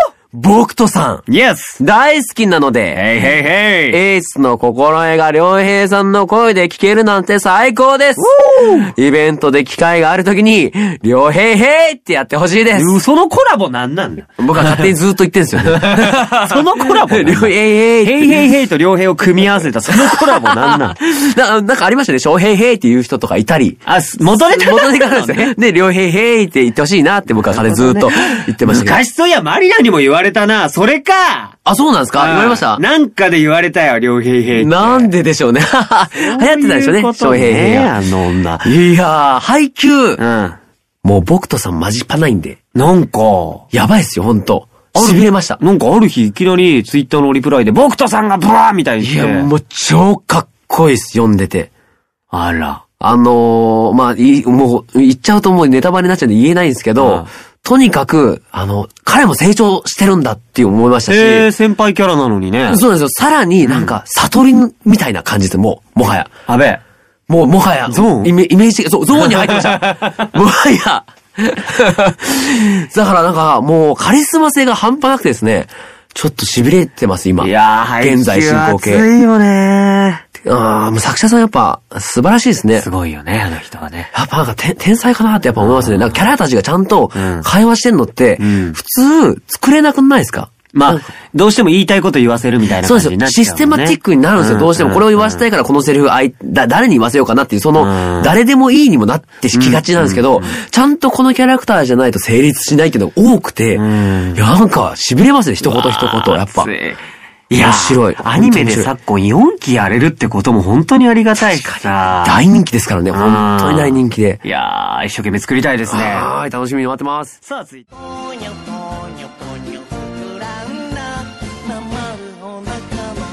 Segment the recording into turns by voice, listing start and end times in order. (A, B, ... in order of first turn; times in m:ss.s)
0:00.3-0:01.3 A
0:01.3-0:01.8 B
0:01.8-0:03.2 A
0:02.9-0:04.0 B
0:03.9-0:13.0 A
0:08.2-0:08.8 B
0:12.8-0:14.9 B
0:14.4-0:18.5 A
0:15.7-0:21.0 B
0:19.9-0:29.0 A
0:23.9-0:25.6 B
0:27.3-0:31.6 B
0:31.6-0:32.8 A
0:32.2-0:35.1 B
0:34.5-0:38.0 A
0:36.2-0:38.7 B
0:38.6-0:40.2 A
0:40.2-0:40.6 B
0:41.0-0:42.6 A
0:42.8-0:43.7 B
0:43.7-0:45.6 A
0:44.9-0:49.5 B
0:49.0-0:51.7 A
0:52.3-0:52.9 B
0:52.9-1:01.5 A
0:57.0-0:57.3 B
1:01.1-1:02.8 B
1:02.7-1:06.4 A
1:03.6-1:04.0 B
1:06.5-1:06.8 B
1:07.3-1:19.1 A
1:07.9-1:08.3 B
1:09.1-1:10.3 B
1:17.4-1:20.3 B
1:20.3-1:22.9 A
1:22.8-1:24.1 B
1:24.1-1:31.2 A
1:25.6-1:26.3 B
1:27.2-1:27.5 B
1:28.4-1:28.8 B
1:30.7-1:35.5 B
1:32.8-1:46.7 A
1:37.8-1:38.3 B
1:39.5-1:40.6 B
1:43.8-1:44.4 B
1:45.6-1:52.4 B
1:47.6-1:48.9 A
1:51.4-1:54.4 A
1:53.1-1:56.3 B
1:55.9-1:57.4 A
1:57.4-1:58.0 B
2:00.3-2:01.0 B
2:01.7-2:03.0 B